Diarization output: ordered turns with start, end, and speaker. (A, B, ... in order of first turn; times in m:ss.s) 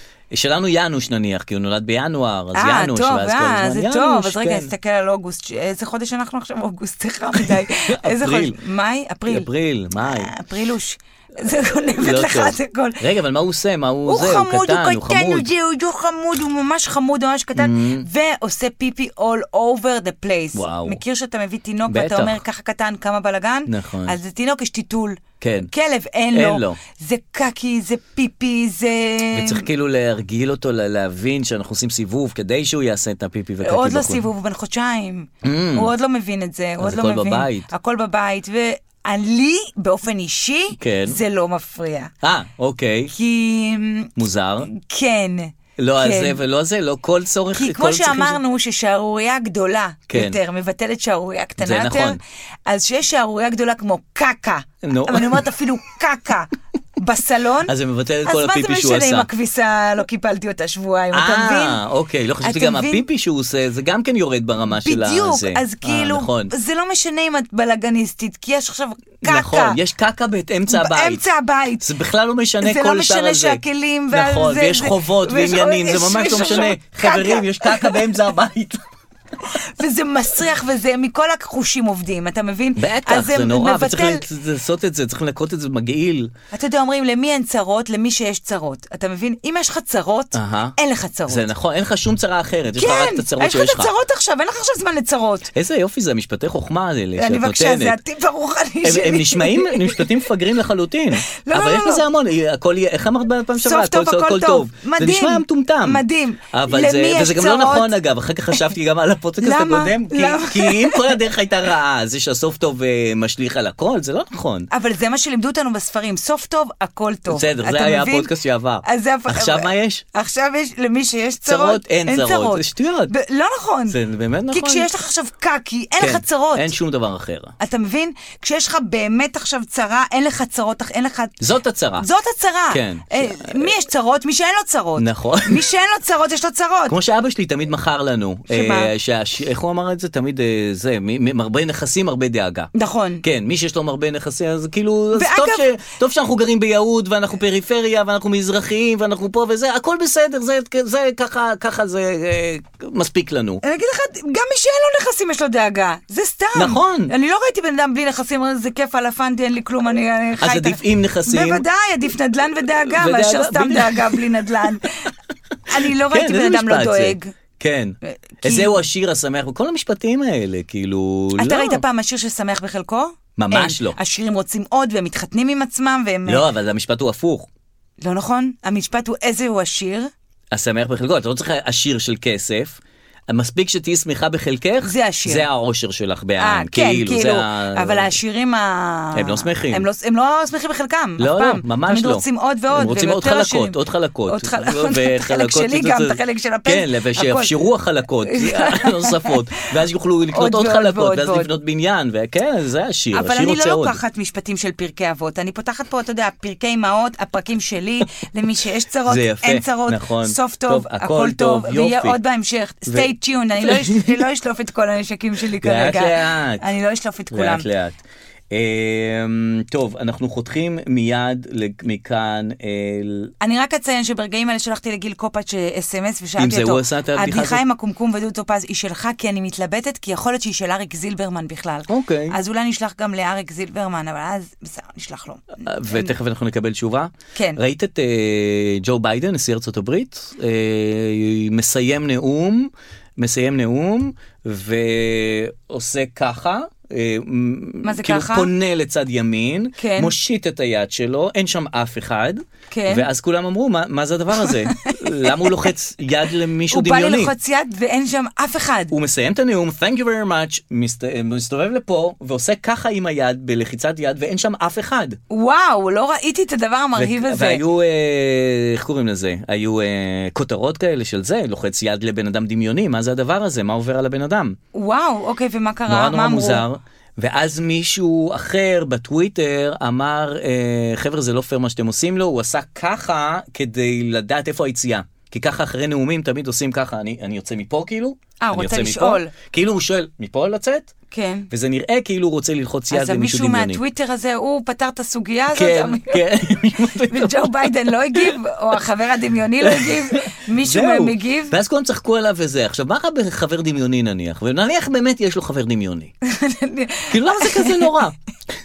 0:00.3-0:04.7 A
0:02.5-0:13.0 B
0:07.4-0:08.6 A
0:09.3-0:10.3 A
0:11.5-0:15.5 A
0:14.1-0:29.6 B
0:17.6-0:18.1 A
0:20.5-0:21.0 A
0:21.9-0:22.4 A
0:23.7-0:24.2 A
0:25.4-0:25.7 A
0:26.3-0:26.8 A
0:29.3-0:34.3 A
0:33.6-0:42.1 B
0:35.4-0:35.9 A
0:36.8-0:37.7 A
0:40.8-0:41.2 A
0:42.2-0:43.1 A
0:43.1-0:46.4 B
0:44.2-0:44.7 A
0:45.8-0:48.4 A
0:47.6-0:57.7 B
0:50.1-0:50.4 A
0:51.6-0:52.2 A
0:54.8-0:55.4 A
0:57.7-0:59.3 A
0:58.2-1:01.8 B
1:01.1-1:06.5 A
1:02.4-1:03.0 B
1:04.7-1:09.8 B
1:09.2-1:11.2 A
1:10.7-1:11.9 B
1:11.8-1:18.8 A
1:12.6-1:18.0 B
1:19.4-1:24.2 B
1:22.8-1:26.3 A
1:26.5-1:31.5 B
1:30.3-1:30.8 A
1:31.3-1:33.9 A
1:32.8-1:35.5 B
1:35.5-1:38.0 A
1:37.2-1:40.1 B
1:38.8-1:54.7 A
1:41.3-1:42.0 B
1:43.6-1:47.9 B
1:49.4-1:51.2 B
1:54.7-1:58.3 B
1:57.3-2:00.0 A
1:58.8-2:04.0 B
2:01.5-2:03.1 A
2:03.9-2:04.9 A
2:04.5-2:06.7 B
2:06.0-2:07.6 A
2:07.6-2:11.4 B
2:11.4-2:12.1 A
2:12.0-2:17.0 B
2:12.7-2:13.7 A
2:15.0-2:15.7 A
2:16.9-2:22.7 A
2:18.5-2:18.9 B
2:22.7-2:23.2 B
2:23.2-2:33.6 A
2:25.1-2:25.7 B
2:33.6-2:45.1 B
2:36.6-2:37.1 A
2:40.4-2:41.6 A
2:42.8-2:44.2 A
2:45.7-2:47.4 B
2:45.8-2:51.8 A
2:48.1-2:48.8 B
2:51.4-2:56.5 B
2:53.4-2:54.0 A
2:56.3-2:57.5 A
2:58.0-3:00.1 B
3:00.5-3:08.2 A
3:04.8-3:05.5 B
3:06.4-3:17.5 B
3:09.2-3:09.9 A
3:11.2-3:24.0 A
3:18.3-3:19.6 B
3:20.3-3:21.5 B
3:23.1-3:37.7 B
3:29.1-3:32.2 A
3:32.9-3:34.2 A
3:35.6-3:36.6 A
3:37.3-3:38.0 A
3:38.5-3:43.3 A
3:43.4-3:56.1 B
3:46.4-3:47.6 A
3:51.9-3:52.4 A
3:55.6-4:17.3 A
4:07.8-4:08.5 B
4:09.8-4:10.1 B
4:12.7-4:13.1 B
4:14.4-4:15.6 B
4:16.7-4:18.9 B
4:18.9-4:25.2 A
4:25.3-4:27.6 B
4:27.0-4:34.6 A
4:34.7-4:36.6 B
4:35.9-4:50.9 A
4:48.4-4:49.3 B
4:51.1-4:51.5 B
4:51.5-4:53.8 A
4:52.9-5:01.6 B
4:55.5-4:57.5 A
4:59.6-5:06.1 A
5:06.2-5:07.9 B
5:07.1-5:08.2 A